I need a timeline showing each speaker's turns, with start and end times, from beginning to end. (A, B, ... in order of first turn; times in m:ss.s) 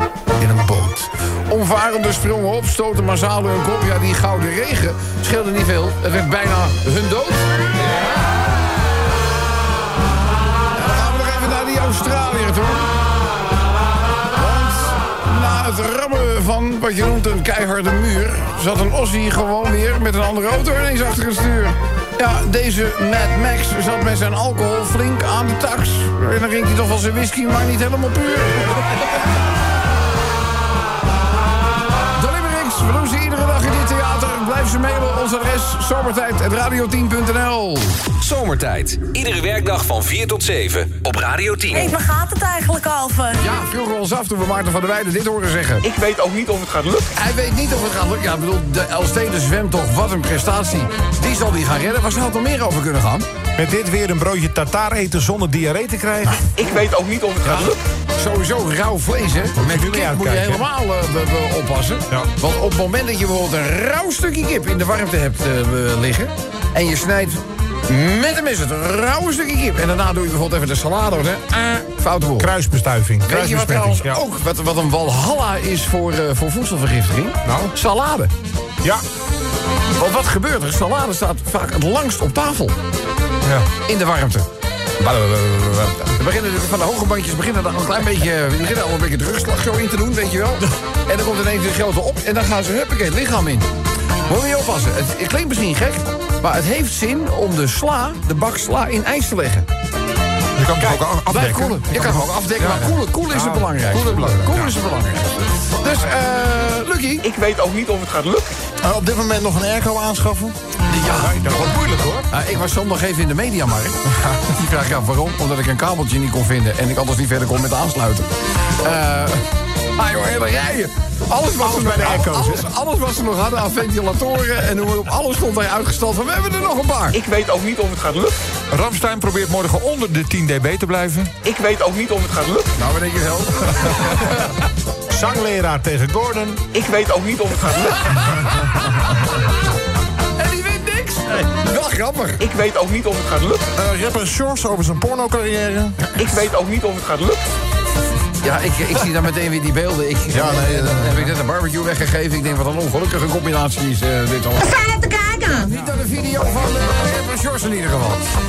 0:00.4-0:08.0 A
0:10.7-0:12.9 A
0:14.3-0:29.1 A
0:32.2-0:38.0 A
0:38.2-0:42.0 B
0:41.7-0:43.4 C
0:43.4-0:45.8 A
0:45.8-0:47.1 D
0:47.2-0:53.3 A
0:53.6-0:56.5 E
0:56.6-0:57.8 D
0:57.5-1:12.5 A
0:59.6-1:00.6 E
1:12.4-1:14.2 E
1:13.2-1:18.3 A
1:17.4-1:17.7 E
1:20.0-1:22.8 A
1:23.8-1:24.5 A
1:25.0-1:33.7 A
1:34.3-1:39.7 A
1:40.6-1:43.0 F
1:40.8-1:41.0 E
1:41.3-1:47.3 A
1:43.3-1:43.7 E
1:43.8-1:44.7 F
1:47.2-1:48.5 D
1:48.8-1:50.6 G
1:50.9-1:51.5 A
1:51.1-1:52.3 E
1:52.3-1:58.3 A
1:58.8-1:59.4 A
2:00.0-2:07.2 A
2:01.6-2:02.7 E
2:07.1-2:08.3 D
2:08.7-2:11.3 F
2:11.4-2:12.7 D
2:12.8-2:14.5 A
2:15.1-2:16.6 E
2:16.7-2:18.2 D
2:18.1-2:18.7 A
2:20.4-2:22.4 A
2:22.4-2:23.6 D
2:23.8-2:26.1 G
2:26.2-2:27.4 D
2:28.4-2:34.9 A
2:30.3-2:31.3 G
2:34.8-2:35.6 C
2:35.5-2:38.2 A